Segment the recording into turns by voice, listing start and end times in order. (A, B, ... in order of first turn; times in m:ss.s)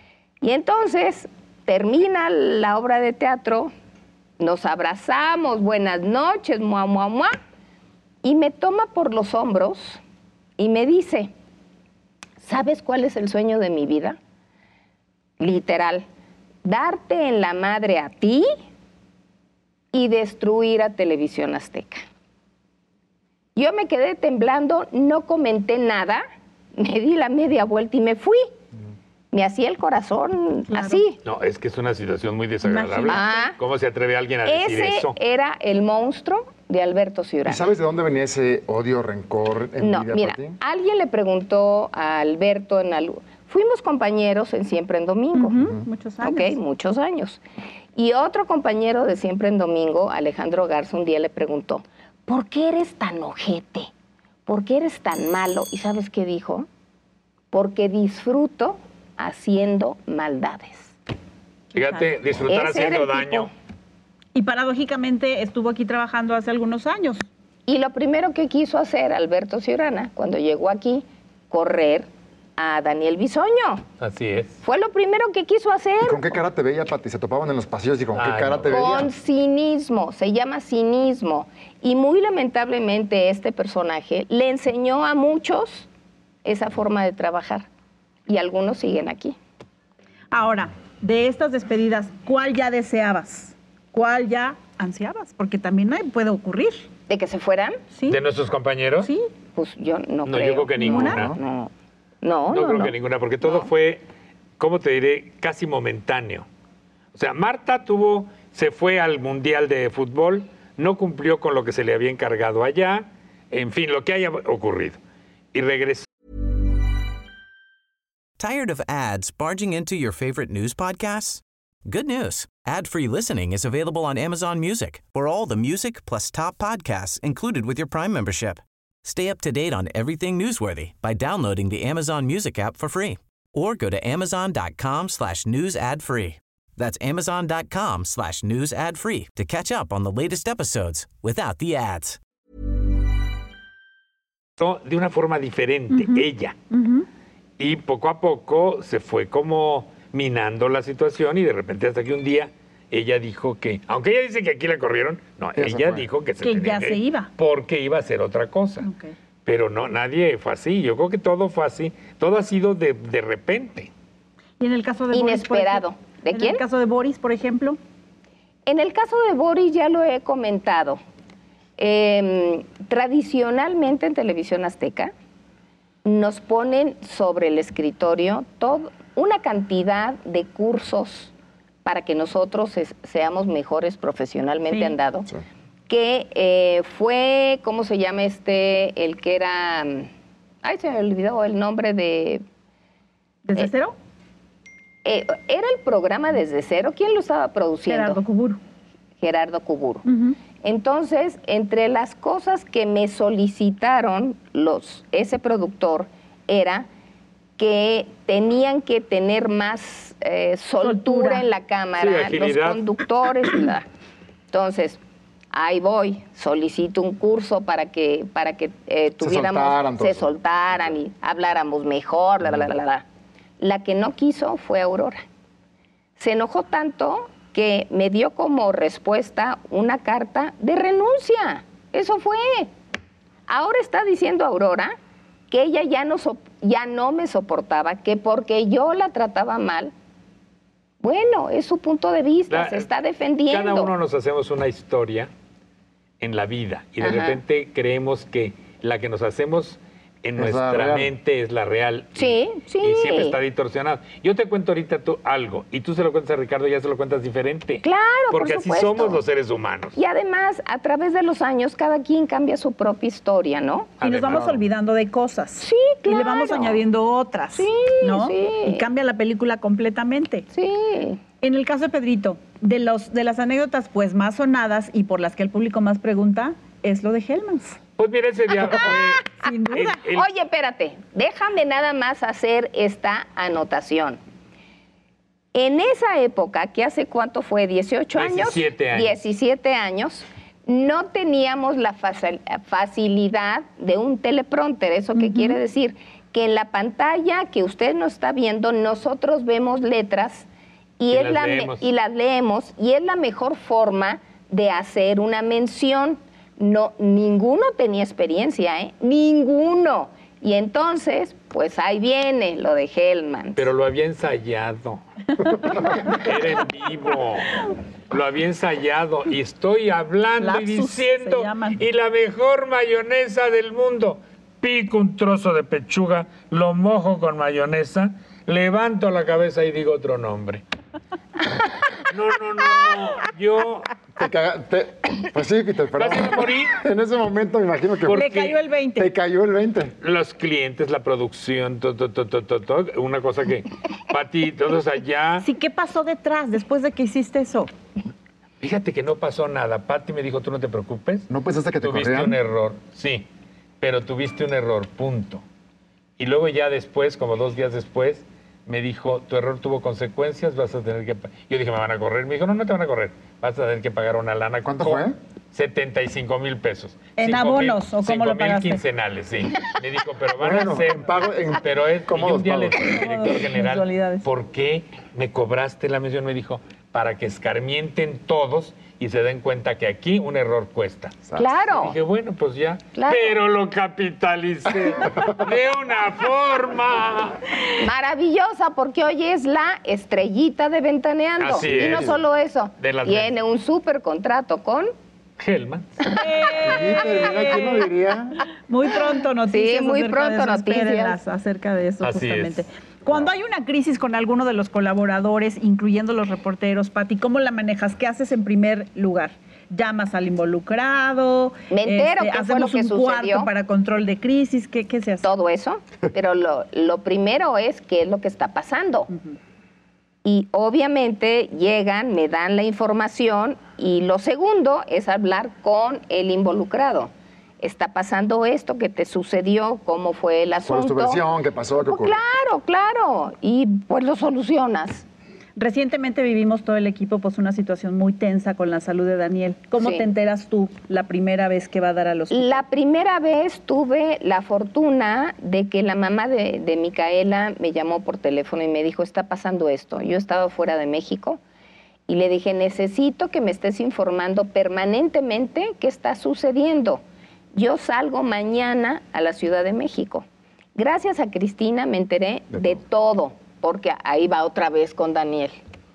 0:00.4-0:03.7 A
0:04.4-0:07.3 A
0:08.2-0:10.0 A
0:10.6-0:11.3 A
0:12.4-0:14.2 A
0:15.4-0:16.0 A
0:16.6-0:18.5 A
0:19.9-0:22.0 A
0:23.6-0:26.2 A
0:26.8-0:28.5 A
0:29.3-0:31.2 A
0:30.7-0:31.0 B
0:31.2-0:35.2 C
0:32.6-0:33.4 B
0:33.1-0:33.6 A
0:34.4-0:37.7 A
0:37.4-0:40.6 D
0:39.8-0:45.6 A
0:45.4-0:46.6 B
0:46.2-0:47.4 A
0:48.0-0:53.9 A
0:54.5-0:56.7 A
0:57.5-1:01.0 A
1:01.7-1:03.5 C
1:01.8-1:02.1 B
1:02.5-1:03.5 A
1:04.3-1:07.2 B
1:07.7-1:13.8 A
1:14.0-1:14.6 C
1:14.6-1:16.4 A
1:16.0-1:19.1 D
1:18.2-1:18.9 C
1:18.7-1:25.9 A
1:26.4-1:27.7 A
1:28.3-1:29.4 A
1:30.3-1:36.9 B
1:37.1-1:37.8 A
1:37.9-1:38.2 B
1:38.1-1:39.1 C
1:39.0-1:39.3 B
1:39.6-1:43.7 A
1:40.3-1:41.4 C
1:40.8-1:41.3 B
1:42.5-1:44.0 C
1:44.6-1:46.5 C
1:47.1-1:55.0 C
1:55.5-1:56.1 C
1:58.4-2:22.2 E
2:24.6-2:26.6 C
2:25.9-2:27.1 B
2:27.6-2:38.9 C
2:35.6-2:36.1 D
2:36.4-2:37.3 B
2:38.8-2:39.1 B
2:39.5-2:43.9 C
2:44.6-2:47.8 B
2:45.1-2:46.6 A
2:48.7-2:51.0 A
2:51.8-2:55.1 A
2:56.0-3:01.3 A
3:01.8-3:05.3 A
3:04.7-3:05.0 B
3:05.9-3:10.1 A
3:10.6-3:12.4 A
3:13.5-3:14.0 B
3:15.0-3:18.2 A
3:17.9-3:18.6 B
3:19.2-3:20.1 A
3:20.1-3:20.4 B
3:20.6-3:26.9 A
3:27.6-3:33.9 A
3:30.8-3:31.5 B
3:32.0-3:32.8 C
3:34.5-3:35.0 A
3:35.5-3:43.0 A
3:39.2-3:40.3 D
3:43.6-3:45.2 A
3:46.2-3:52.7 A
3:53.5-3:55.0 A
3:55.5-3:59.9 A
4:01.0-4:03.9 A
4:02.5-4:02.9 C
4:03.5-4:05.3 C
4:06.2-4:20.0 C
4:07.0-4:07.4 A
4:10.4-4:11.1 D
4:12.2-4:13.4 A
4:17.8-4:19.2 A
4:20.0-4:23.9 A
4:24.0-4:24.6 C
4:24.0-4:30.5 B
4:25.6-4:26.8 A
4:27.6-4:28.8 A
4:30.5-4:31.2 A
4:31.4-4:37.8 B
4:38.0-4:40.3 C
4:38.7-4:40.0 B
4:40.0-4:44.2 A
4:45.5-5:00.5 A
4:48.1-4:49.2 C
4:55.2-4:55.6 B
5:01.0-5:13.7 A
5:01.1-5:01.9 C
5:13.6-5:15.0 C
5:15.6-5:30.6 C
5:20.4-5:21.8 B
5:32.1-5:33.9 C
5:34.2-5:38.3 D
5:36.0-5:36.8 C
5:38.1-5:38.6 C
5:38.1-5:39.1 B
5:39.0-5:39.9 D
5:40.0-5:45.5 C
5:45.4-5:47.7 B
5:48.6-5:51.3 C
5:51.3-5:52.4 D
5:51.8-5:53.3 C
5:53.8-5:55.4 C
5:56.2-6:27.5 C
6:04.6-6:05.2 D
6:07.2-6:08.8 B
6:10.4-6:12.9 D
6:12.9-6:14.3 B
6:21.4-6:21.9 A
6:23.0-6:23.4 A
6:27.8-6:34.9 A
6:31.4-6:32.2 C
6:31.6-6:32.2 D
6:32.8-6:33.3 C
6:35.4-6:36.1 C
6:36.1-6:37.9 B
6:36.6-6:38.4 D
6:38.7-6:55.3 B
6:39.5-6:41.2 A
6:42.0-6:42.6 C
6:51.7-6:53.5 A
6:55.2-6:59.1 A
7:00.2-7:11.2 A
7:10.7-7:12.2 D
7:11.8-7:15.0 A
7:15.6-7:22.6 B
7:19.8-7:20.1 A
7:22.3-7:31.4 A
7:32.1-7:37.0 A
7:37.5-7:45.6 A
7:42.5-7:42.8 D